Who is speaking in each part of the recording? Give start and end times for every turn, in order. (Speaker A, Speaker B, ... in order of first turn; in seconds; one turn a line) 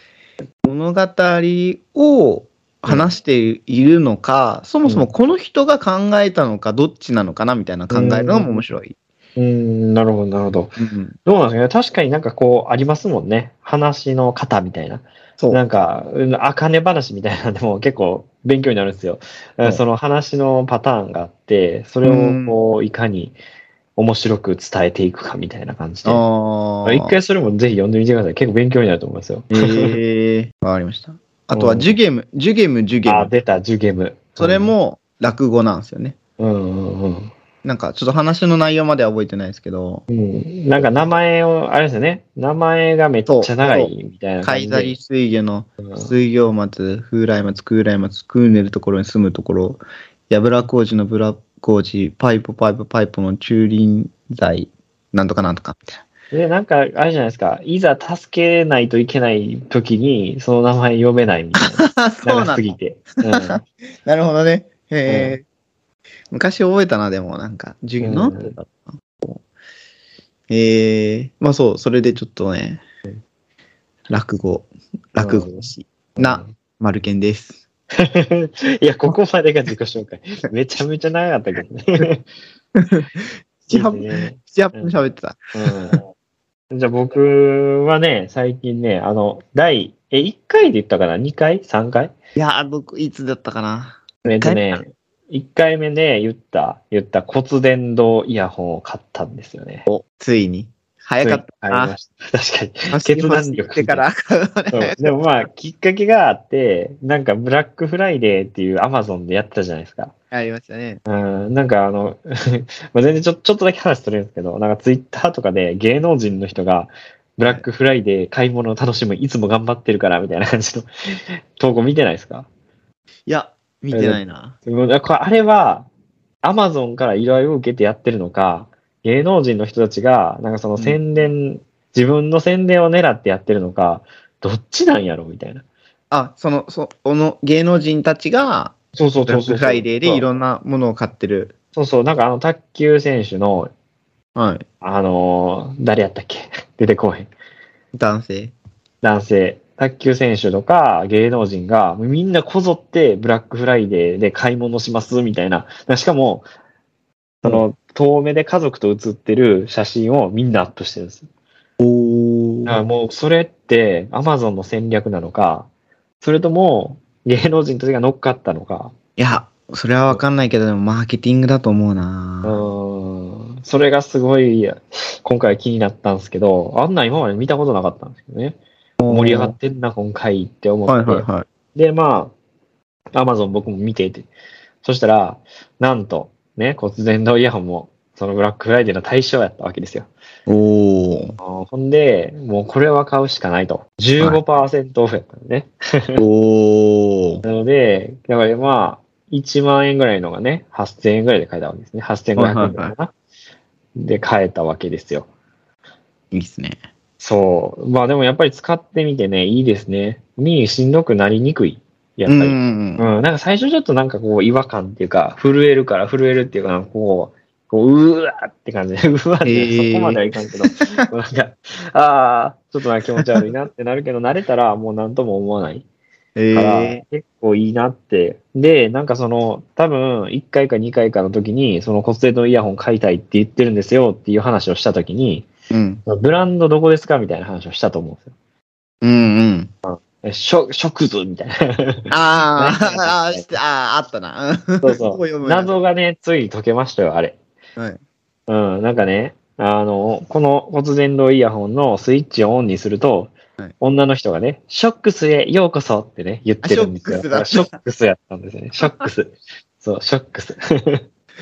Speaker A: 0.6-9.0
Speaker B: 7.9-8.6
Speaker B: 9.4-23.4
Speaker A: 10.8-11.2
Speaker A: 22.1-22.6
Speaker B: 24.0-26.2
Speaker A: 26.1-27.1
Speaker B: 26.8-30.0
Speaker A: 29.5-33.3
Speaker B: 31.5-31.9
Speaker B: 33.1-34.7
Speaker A: 34.4-36.2
Speaker B: 36.4-37.3
Speaker A: 37.6-40.0
Speaker B: 40.1-45.0
Speaker A: 43.3-43.9
Speaker A: 44.4-56.0
Speaker B: 45.8-46.1
Speaker B: 56.3-63.6
Speaker A: 61.6-62.8
Speaker A: 63.3-65.4
Speaker B: 65.1-65.4
Speaker A: 66.3-69.4
Speaker B: 68.0-68.5
Speaker A: 70.5-72.8
Speaker A: 74.1-77.6
Speaker B: 75.2-76.5
Speaker B: 78.0-82.3
Speaker A: 82.8-86.0
Speaker B: 83.7-85.0
Speaker B: 85.5-86.1
Speaker B: 86.7-92.1
Speaker A: 92.4-94.8
Speaker B: 94.2-99.9
Speaker A: 99.9-102.0
Speaker B: 101.2-104.0
Speaker A: 102.9-105.2
Speaker B: 104.7-110.1
Speaker A: 110.3-111.0
Speaker B: 111.1-120.9
Speaker B: 121.6-122.5
Speaker A: 123.3-124.5
Speaker B: 123.9-125.9
Speaker B: 126.4-135.6
Speaker A: 136.1-141.5
Speaker B: 138.9-140.2
Speaker B: 141.8-143.7
Speaker A: 144.3-144.6
Speaker B: 144.8-147.3
Speaker A: 147.9-148.5
Speaker B: 149.0-156.5
Speaker B: 157.4-161.3
Speaker A: 161.8-162.8
Speaker B: 162.7-165.7
Speaker B: 166.2-168.9
Speaker A: 169.2-172.6
Speaker B: 172.4-178.6
Speaker A: 179.0-179.6
Speaker B: 179.1-182.3
Speaker A: 180.9-181.5
Speaker B: 183.1-184.3
Speaker B: 184.8-190.1
Speaker A: 190.5-191.4
Speaker B: 191.4-196.2
Speaker A: 196.2-197.4
Speaker B: 197.4-203.1
Speaker A: 202.4-202.9
Speaker B: 203.9-205.3
Speaker A: 206.3-206.8
Speaker B: 207.2-225.8
Speaker A: 212.3-213.1
Speaker A: 219.4-221.1
Speaker A: 223.2-223.4
Speaker A: 226.4-227.0
Speaker B: 226.5-235.5
Speaker A: 235.7-236.0
Speaker B: 236.1-238.3
Speaker A: 239.0-239.7
Speaker B: 239.9-243.5
Speaker A: 242.1-245.7
Speaker B: 244.8-247.4
Speaker B: 248.5-261.0
Speaker A: 256.6-257.7
Speaker A: 258.8-259.1